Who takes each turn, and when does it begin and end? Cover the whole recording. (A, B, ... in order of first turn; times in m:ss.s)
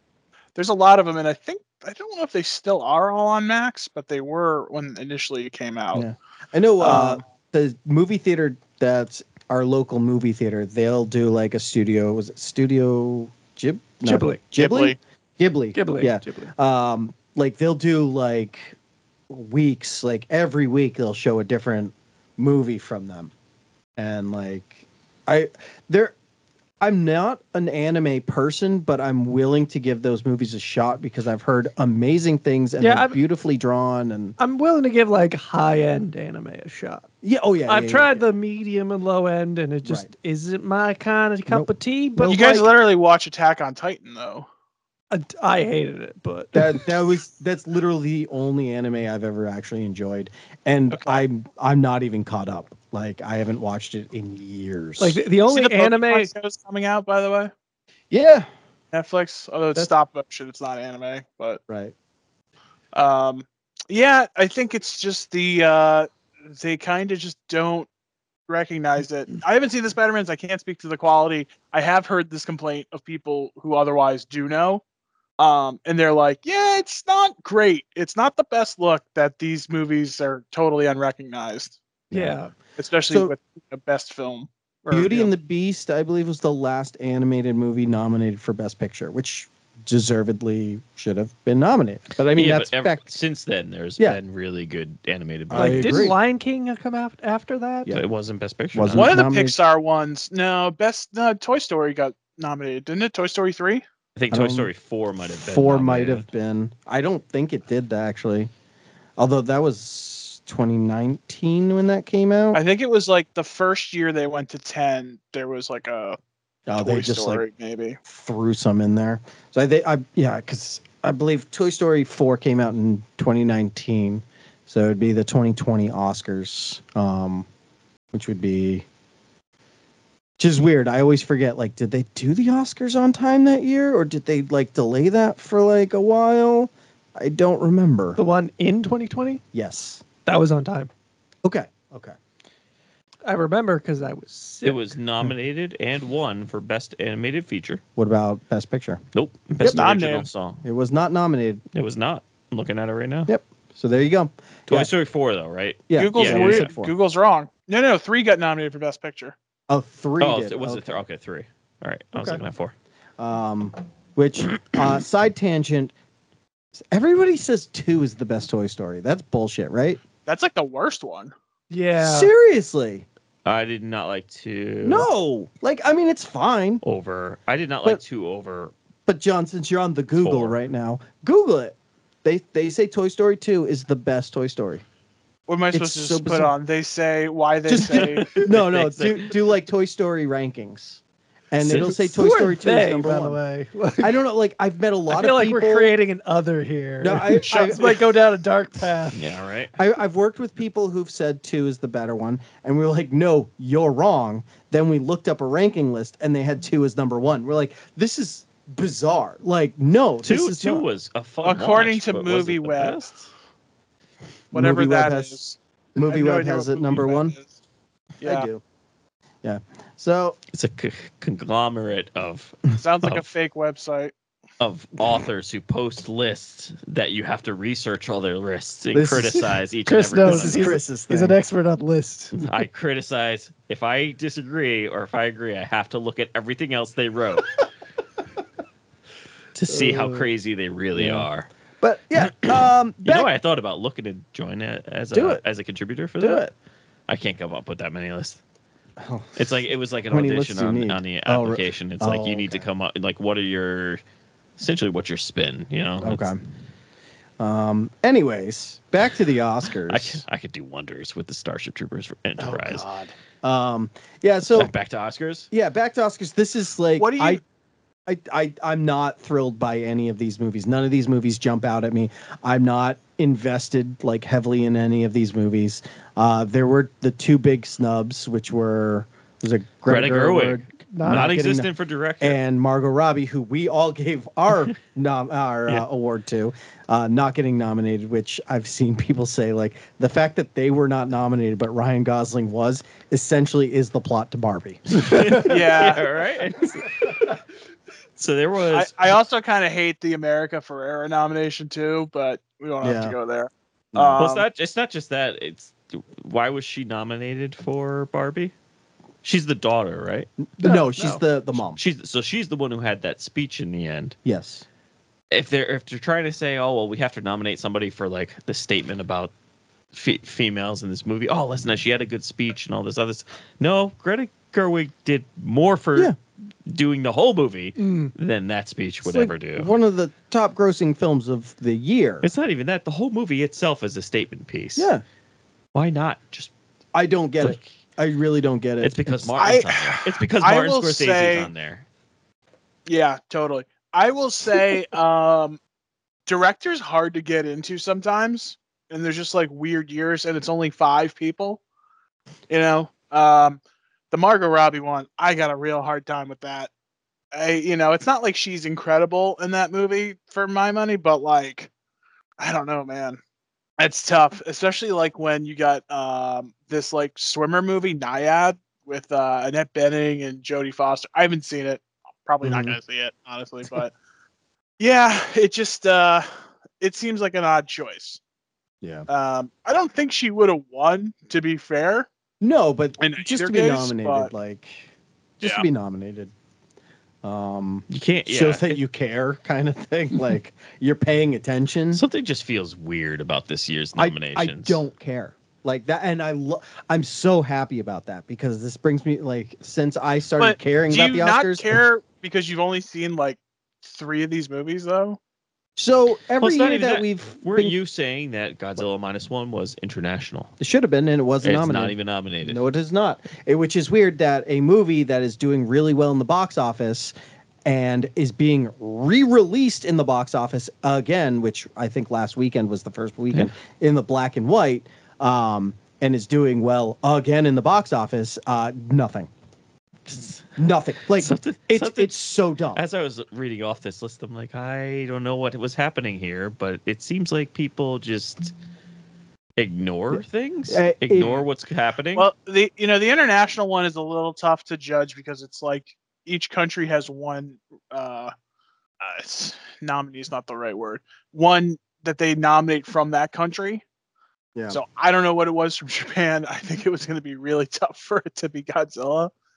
0:00.6-0:06.0 A
0:05.9-0:18.8 B
0:06.8-0:07.2 A
0:06.8-0:07.2 C
0:14.0-0:14.4 C
0:14.5-0:15.0 A
0:15.7-0:16.5 C
0:19.3-0:23.3 B
0:24.0-0:26.1 B
0:26.8-0:34.4 B
0:32.8-0:33.2 C
0:34.4-0:37.0 C
0:37.2-0:38.2 B
0:37.7-0:42.6 C
0:39.8-0:40.1 B
0:41.5-0:42.6 B
0:42.2-0:44.5 A
0:45.1-0:46.9 C
0:46.5-0:55.2 B
0:50.9-0:51.2 A
0:55.0-0:56.3 C
0:55.5-0:57.5 A
0:58.1-0:58.5 B
0:58.9-1:01.6 A
1:01.7-1:01.9 B
1:02.9-1:07.9 A
1:08.5-1:14.8 A
1:15.4-1:21.8 A
1:22.1-1:22.5 B
1:22.1-1:22.5 C
1:22.8-1:25.3 A
1:23.1-1:23.3 B
1:24.9-1:25.2 C
1:24.9-1:33.1 B
1:32.2-1:36.1 D
1:35.5-1:36.2 B
1:35.5-1:37.9 C
1:37.9-1:39.2 D
1:38.7-1:39.6 B
1:38.9-1:43.8 A
1:44.2-1:46.2 D
1:44.3-1:44.7 B
1:45.4-1:48.5 B
1:49.2-1:52.6 B
1:52.5-1:56.2 A
1:56.7-1:57.4 B
1:56.8-1:58.0 A
1:58.0-2:07.5 B
2:08.1-2:08.8 B
2:10.4-2:18.2 B
2:18.2-2:19.4 C
2:19.5-2:20.0 B
2:20.2-2:20.9 C
2:21.4-2:22.2 B
2:23.2-2:24.9 C
2:24.6-2:27.8 D
2:28.0-2:29.0 B
2:29.1-2:30.6 D
2:29.6-2:30.3 A
2:30.6-2:31.6 B
2:31.7-2:33.3 D
2:33.3-2:34.9 B
2:34.7-2:36.7 D
2:35.9-2:36.9 B
2:36.0-2:39.3 A
2:39.7-2:41.0 B
2:40.2-2:42.7 D
2:42.1-2:42.4 B
2:43.2-2:45.9 B
2:46.9-2:50.0 B
2:50.3-2:51.3 A
2:51.7-2:52.3 C
2:52.0-2:53.0 B
2:53.4-2:55.1 D
2:54.8-2:56.8 B
2:56.8-2:58.7 D
2:59.1-3:04.8 B
3:00.2-3:00.6 D
3:05.5-3:08.3 A
3:05.7-3:06.5 B
3:07.7-3:13.4 B
3:08.0-3:09.3 D
3:11.6-3:14.1 C
3:14.0-3:15.9 B
3:15.1-3:19.2 C
3:17.0-3:18.0 B
3:19.1-3:19.7 D
3:19.8-3:30.8 B
3:30.2-3:33.1 D
3:31.4-3:33.1 A
3:34.5-3:35.3 B
3:34.5-3:37.5 A
3:36.0-3:37.3 B
3:38.2-3:38.5 A
3:38.2-3:38.6 B
3:39.4-3:40.4 B
3:40.5-3:43.3 D
3:42.8-3:44.1 A
3:44.6-3:50.8 D
3:48.9-3:49.6 B
3:49.8-3:52.4 C
3:50.2-3:51.4 B
3:52.3-3:57.5 D
3:59.5-4:01.5 D
3:59.7-4:00.3 B
4:00.9-4:01.3 B
4:01.8-4:03.3 B
4:03.0-4:06.4 D
4:05.1-4:05.4 B
4:06.2-4:06.5 B
4:07.1-4:08.4 D
4:09.0-4:09.5 B
4:09.4-4:14.0 D
4:10.1-4:12.7 B
4:14.6-4:16.2 D
4:16.0-4:16.4 B
4:17.4-4:20.2 B
4:19.9-4:22.8 D
4:22.4-4:24.7 B
4:24.6-4:25.5 D
4:25.5-4:27.4 B
4:27.0-4:27.4 A
4:28.1-4:55.8 B
4:39.8-4:42.4 D
4:40.9-4:41.3 C
4:54.9-4:57.4 D
4:55.3-4:56.0 A
4:58.2-4:59.0 D
4:58.7-5:04.4 A
5:02.8-5:03.2 B
5:03.9-5:04.2 B
5:04.2-5:08.5 D
5:09.2-5:10.3 D
5:10.5-5:11.8 B
5:10.6-5:11.2 C
5:11.6-5:14.2 D
5:14.2-5:14.6 B
5:15.3-5:19.3 D
5:19.9-5:26.1 D
5:26.6-5:29.7 D
5:27.8-5:28.1 C
5:29.0-5:32.3 B
5:32.2-5:34.9 D
5:34.8-5:35.0 B
5:35.7-5:36.5 D
5:36.9-5:39.5 B
5:38.8-5:41.8 D
5:39.4-5:41.5 A
5:42.9-5:45.6 A
5:46.3-5:51.6 A
5:52.5-5:56.7 A
5:57.3-6:01.7 A
6:02.4-6:03.2 A
6:03.8-6:13.9 A
6:12.4-6:12.8 B
6:14.8-6:18.2 A
6:18.8-6:19.1 B
6:19.1-6:22.1 A
6:22.4-6:26.3 B
6:23.0-6:24.3 A
6:27.2-6:32.0 B
6:27.9-6:28.8 D
6:31.9-6:34.8 D
6:33.9-6:41.7 B
6:40.4-6:45.2 A
6:45.8-6:47.7 B
6:46.4-6:50.5 D
6:50.6-6:57.1 B
6:51.4-6:52.6 D
6:57.6-7:09.3 B
7:10.1-7:10.4 D
7:10.5-7:12.8 B
7:11.2-7:12.1 D
7:12.7-7:18.5 D
7:19.6-7:22.3 D
7:20.1-7:21.4 B
7:22.2-7:28.3 A
7:29.0-7:33.8 A
7:34.5-7:34.8 B
7:34.7-7:39.3 A